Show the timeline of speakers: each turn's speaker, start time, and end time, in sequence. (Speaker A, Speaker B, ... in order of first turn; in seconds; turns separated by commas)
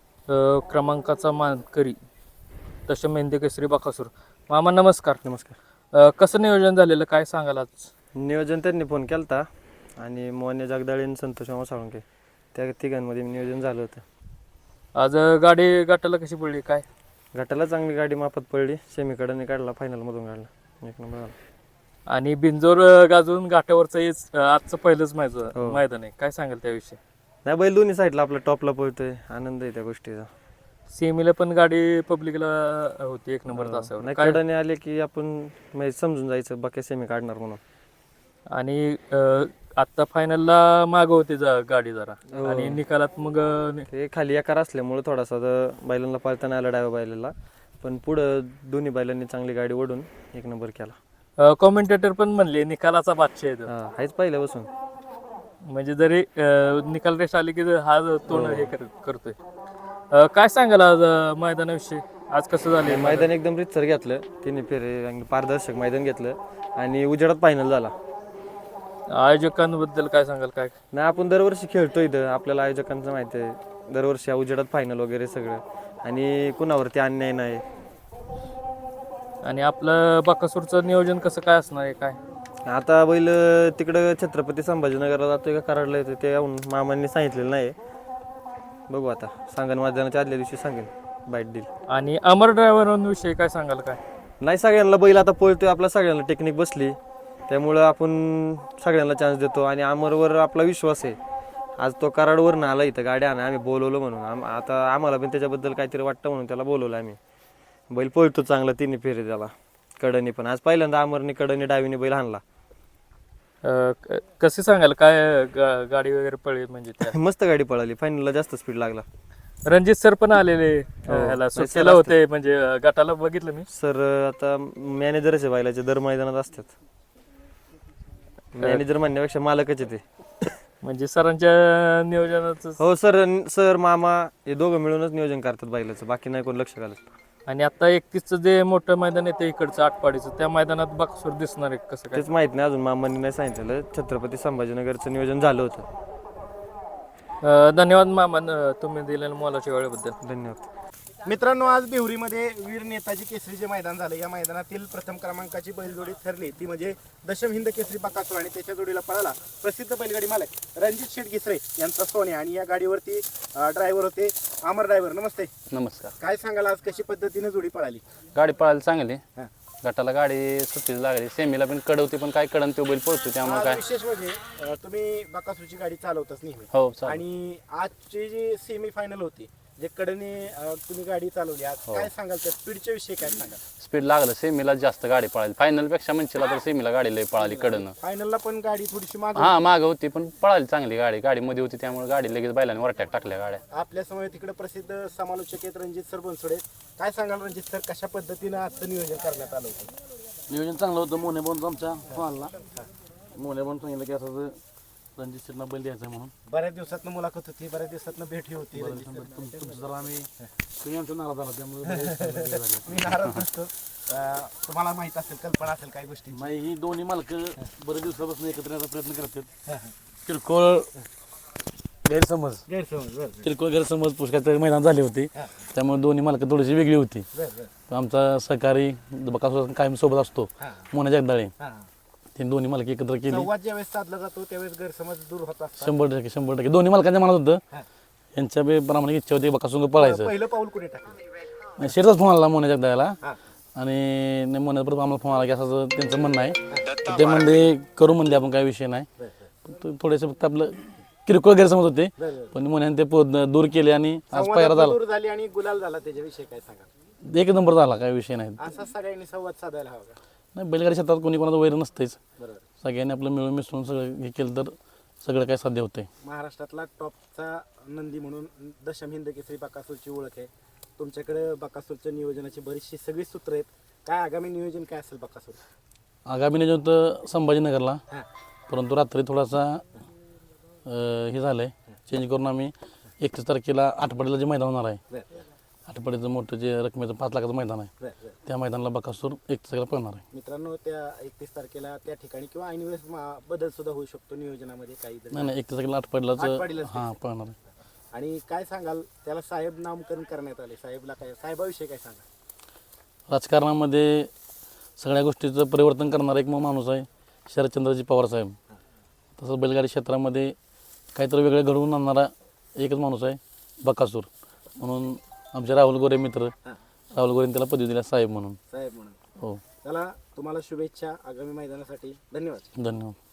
Speaker A: 0.3-2.0, Speaker A: 2.9-5.2, Speaker B: 5.2-5.5, Speaker A: 5.9-7.9, Speaker B: 8.2-9.4, Speaker B: 10.0-14.0, Speaker A: 14.9-16.8, Speaker B: 17.3-21.3, Speaker A: 22.1-27.0, Speaker B: 25.5-25.8, Speaker B: 27.4-30.3, Speaker A: 30.9-34.4, Speaker B: 33.5-37.6, Speaker A: 38.5-43.9, Speaker B: 42.3-42.8, Speaker B: 43.9-51.0, Speaker A: 51.4-53.7, Speaker B: 53.7-54.7, Speaker A: 55.6-59.4, Speaker B: 58.3-58.7, Speaker A: 60.1-63.3, Speaker B: 62.8-67.9, Speaker A: 69.1-70.7, Speaker B: 70.9-77.6, Speaker A: 79.4-82.2, Speaker B: 82.6-87.7, Speaker B: 88.9-91.7, Speaker A: 91.9-94.0, Speaker B: 94.4-97.0, Speaker B: 97.5-101.2, Speaker B: 101.8-107.2, Speaker B: 107.9-112.4, Speaker A: 113.6-117.1, Speaker B: 117.0-119.0, Speaker A: 119.7-123.7, Speaker B: 121.1-122.1, Speaker B: 123.7-126.7, Speaker B: 128.6-130.0, Speaker A: 130.8-132.8, Speaker B: 132.8-137.0, Speaker A: 137.4-142.2, Speaker B: 142.1-145.9, Speaker A: 147.4-150.2, Speaker B: 150.2-150.6, Speaker C: 151.2-165.5, Speaker D: 165.7-166.1, Speaker C: 166.2-168.0, Speaker D: 168.3-169.2, Speaker D: 169.8-173.8, Speaker C: 173.4-183.6, Speaker D: 176.7-177.2, Speaker D: 183.8-187.9, Speaker C: 187.3-189.6, Speaker D: 189.3-193.6, Speaker C: 193.7-199.9, Speaker E: 200.5-202.5, Speaker E: 203.3-204.6, Speaker E: 205.2-206.3, Speaker C: 206.5-209.2, Speaker E: 208.7-213.0, Speaker C: 211.8-216.5, Speaker E: 216.3-219.5, Speaker E: 220.2-220.9, Speaker E: 222.0-222.6, Speaker C: 222.7-223.5, Speaker E: 223.4-227.3, Speaker C: 227.3-227.7, Speaker E: 227.9-231.5, Speaker C: 231.6-231.9, Speaker E: 232.3-233.5, Speaker C: 233.3-235.9, Speaker E: 235.8-237.6, Speaker E: 238.3-240.3, Speaker C: 240.0-241.2, Speaker E: 241.8-243.2, Speaker E: 243.7-249.1, Speaker C: 246.7-247.0, Speaker E: 249.6-255.0, Speaker C: 252.2-252.5, Speaker C: 254.3-256.9, Speaker E: 257.2-258.6, Speaker C: 258.6-260.2, Speaker E: 260.5-262.2, Speaker C: 262.4-262.6, Speaker E: 262.8-266.1, Speaker C: 266.2-275.6, Speaker E: 276.2-278.0, Speaker E: 278.7-279.9, Speaker E: 280.8-285.0, Speaker C: 285.1-285.4, Speaker E: 285.9-287.9, Speaker C: 288.0-288.3, Speaker E: 288.4-290.2, Speaker C: 290.3-295.5, Speaker E: 295.3-297.6, Speaker C: 296.4-297.1, Speaker C: 298.1-302.2, Speaker E: 303.3-304.3, Speaker E: 305.0-308.6, Speaker E: 309.4-310.5, Speaker E: 311.1-316.5, Speaker E: 317.1-318.6, Speaker C: 318.7-319.2, Speaker C: 319.8-322.7, Speaker E: 322.7-323.1